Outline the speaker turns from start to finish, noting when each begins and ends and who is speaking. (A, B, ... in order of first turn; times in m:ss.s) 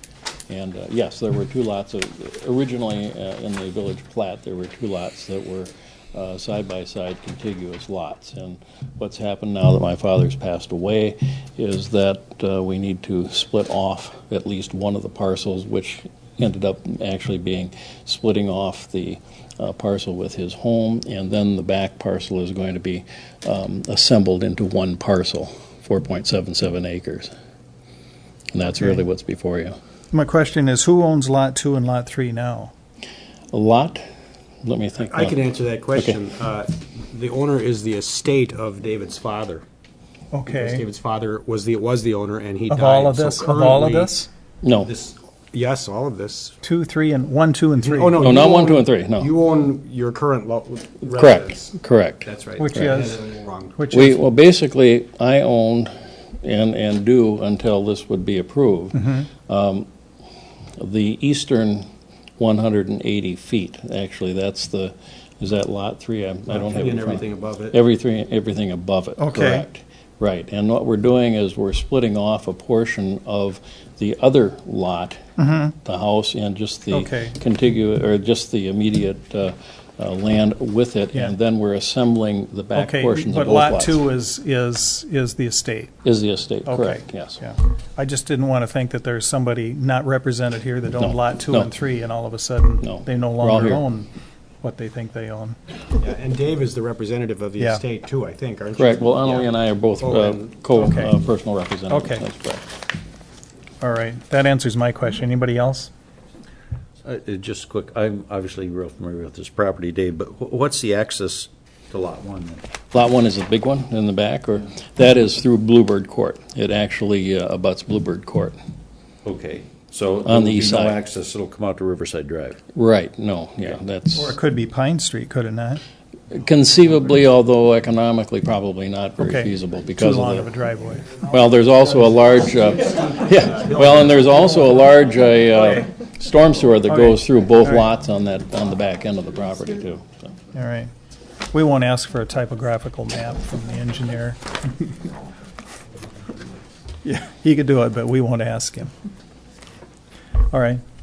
0:00.5-0:27.3 A
0:28.5-0:29.8 A
0:30.1-0:32.7 B
0:33.5-0:34.1 A
0:34.6-0:35.4 A
0:35.0-0:39.6 C
0:35.9-0:36.2 A
0:40.3-0:40.8 B
0:40.4-0:44.2 C
0:42.7-0:44.3 B
0:44.6-0:44.9 A
0:44.8-0:46.6 C
0:46.6-0:48.2 B
0:47.8-0:53.8 C
0:48.2-0:49.3 A
0:51.1-0:53.0 A
0:52.6-0:53.2 B
0:53.8-0:54.2 B
0:53.9-0:59.9 A
0:58.9-0:59.3 B
1:00.8-1:01.8 A
1:02.4-1:15.2 A
1:06.5-1:07.8 C
1:09.2-1:09.6 B
1:15.4-1:15.7 B
1:15.8-1:24.0 A
1:16.9-1:17.4 B
1:22.7-1:25.9 B
1:26.0-1:27.4 A
1:26.6-1:34.1 B
1:31.0-1:31.7 A
1:32.8-1:33.8 A
1:34.6-1:35.6 B
1:35.9-1:40.6 C
1:38.8-1:42.7 A
1:40.7-1:41.1 B
1:41.9-1:42.2 B
1:43.8-1:45.9 B
1:47.0-1:52.6 D
1:52.9-1:58.6 A
1:59.2-2:02.6 D
2:00.2-2:01.0 A
2:02.7-2:04.4 A
2:04.2-2:05.8 B
2:06.3-2:10.5 A
2:09.2-2:11.1 B
2:11.2-2:20.3 A
2:16.9-2:17.8 B
2:20.5-2:20.9 B
2:21.5-2:25.0 B
2:27.0-2:28.9 B
2:30.5-2:30.8 B